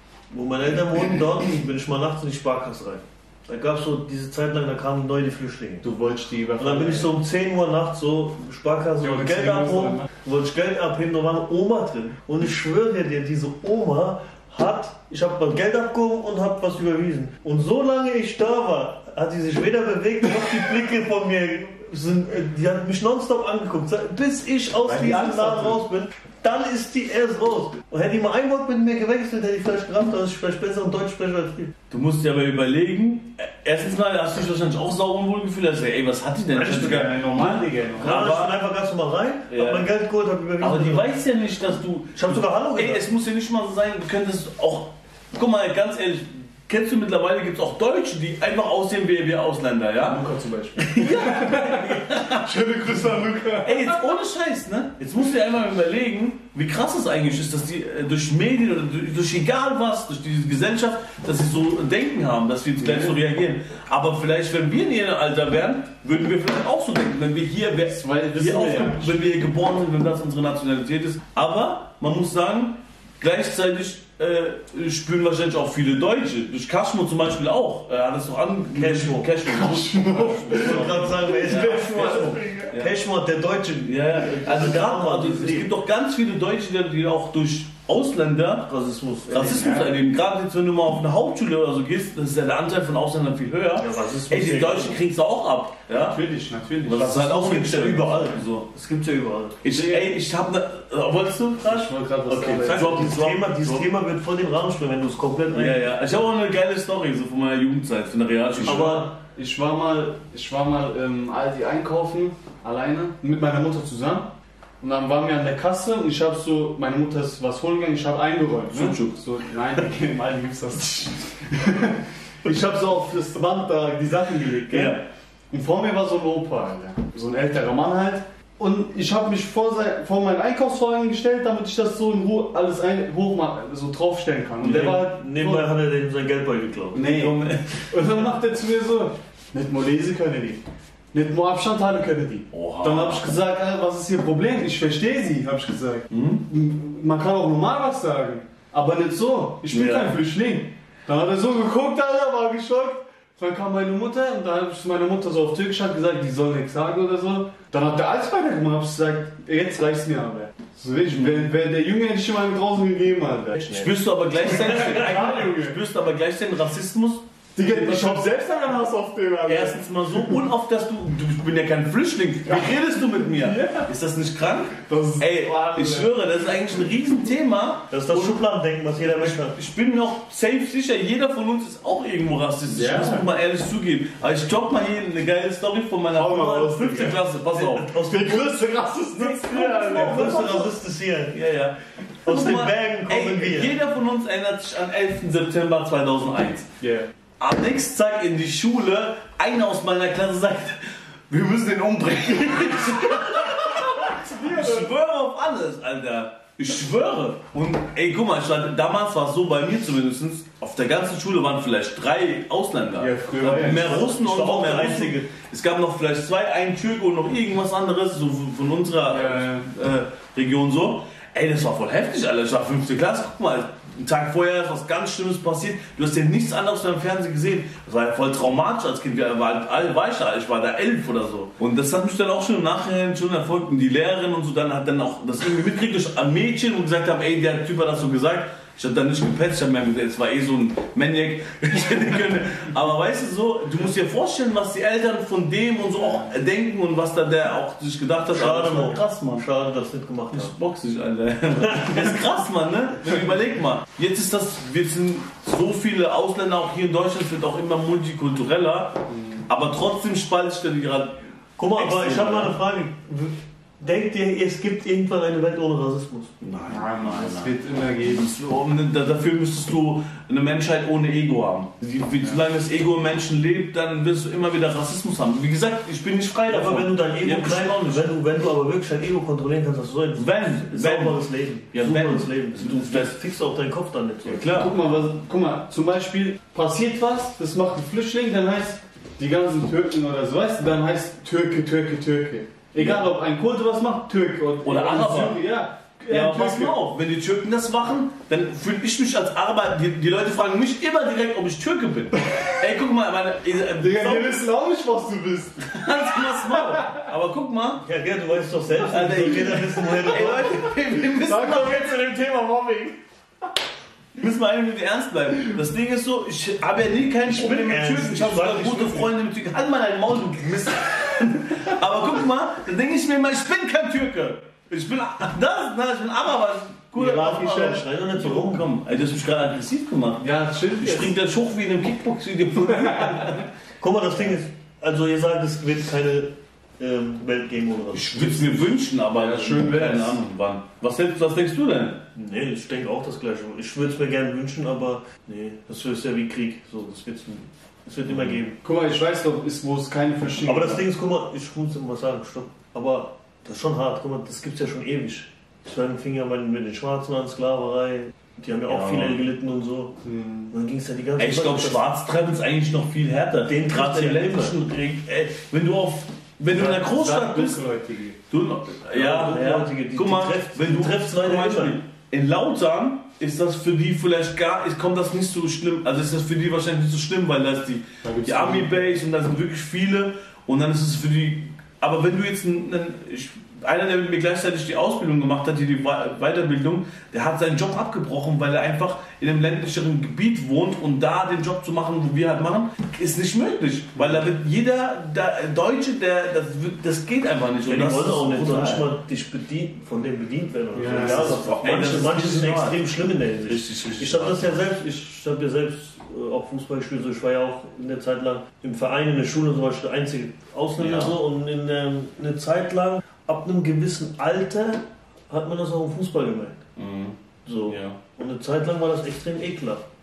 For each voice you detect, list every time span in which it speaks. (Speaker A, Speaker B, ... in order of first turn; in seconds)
Speaker A: 0.3-5.9, 6.6-31.7, 36.6-37.0, 38.0-41.1, 42.2-43.0, 78.7-79.3, 80.5-85.7, 88.7-89.9, 93.8-95.0, 97.0-99.6, 102.3-106.0, 108.6-109.1, 134.6-137.0, 163.6-163.9, 177.9-179.6, 187.5-191.4, 192.3-193.8, 214.0-215.3, 248.3-250.5, 261.6-266.3, 276.5-284.5, 307.8-310.7, 317.3-319.1, 326.9-328.7, 333.8-338.6, 342.1-348.6, 350.4-359.9, 360.5-361.9, 363.4-364.6, 368.9-371.8, 397.6-416.6, 417.5-419.9
Speaker B: 5.8-7.1, 9.0-10.1, 24.8-25.8, 36.6-38.3, 50.0-54.2, 62.8-63.2, 67.9-69.2, 79.5-82.5, 89.4-89.9, 96.1-97.2, 99.7-100.1, 101.7-103.1, 108.7-135.7, 136.9-137.4, 137.9-163.6, 164.4-165.8, 167.6-170.3, 172.5-173.9, 174.9-176.1, 182.7-183.3, 186.1-187.2, 188.0-190.2, 196.8-197.1, 204.1-204.9, 213.0-214.1, 219.1-219.7, 259.1-259.4, 266.7-268.3, 284.5-296.8, 303.8-305.7, 306.5-307.0, 310.9-313.0, 330.2-331.2, 339.1-340.2, 348.6-350.9, 360.0-360.5, 366.5-368.2, 378.0-379.0, 394.0-394.2, 400.8-401.4
Speaker C: 31.9-38.5, 39.5-39.9, 40.6-50.2, 50.9-52.5, 53.6-83.0, 83.9-88.7, 89.3-96.2, 96.8-98.7, 99.6-101.9, 102.6-103.9, 105.5-109.1, 118.7-119.2, 124.7-125.0, 134.6-135.0, 137.0-137.8, 142.5-143.2, 146.1-146.4, 149.7-150.2, 163.7-167.2, 167.8-168.2, 169.5-178.4, 179.1-187.9, 189.2-190.8, 191.3-196.7, 197.4-249.4, 250.3-261.2, 261.7-262.6, 266.4-278.1, 280.2-283.1, 284.3-284.8, 292.8-293.1, 294.6-295.5, 296.0-304.4, 305.7-307.9, 308.8-312.0, 314.2-333.5, 337.9-342.0, 358.7-359.2, 361.2-367.6, 368.3-398.9, 401.0-402.9, 403.5-404.6, 410.8-411.1, 416.8-417.2, 417.7-418.0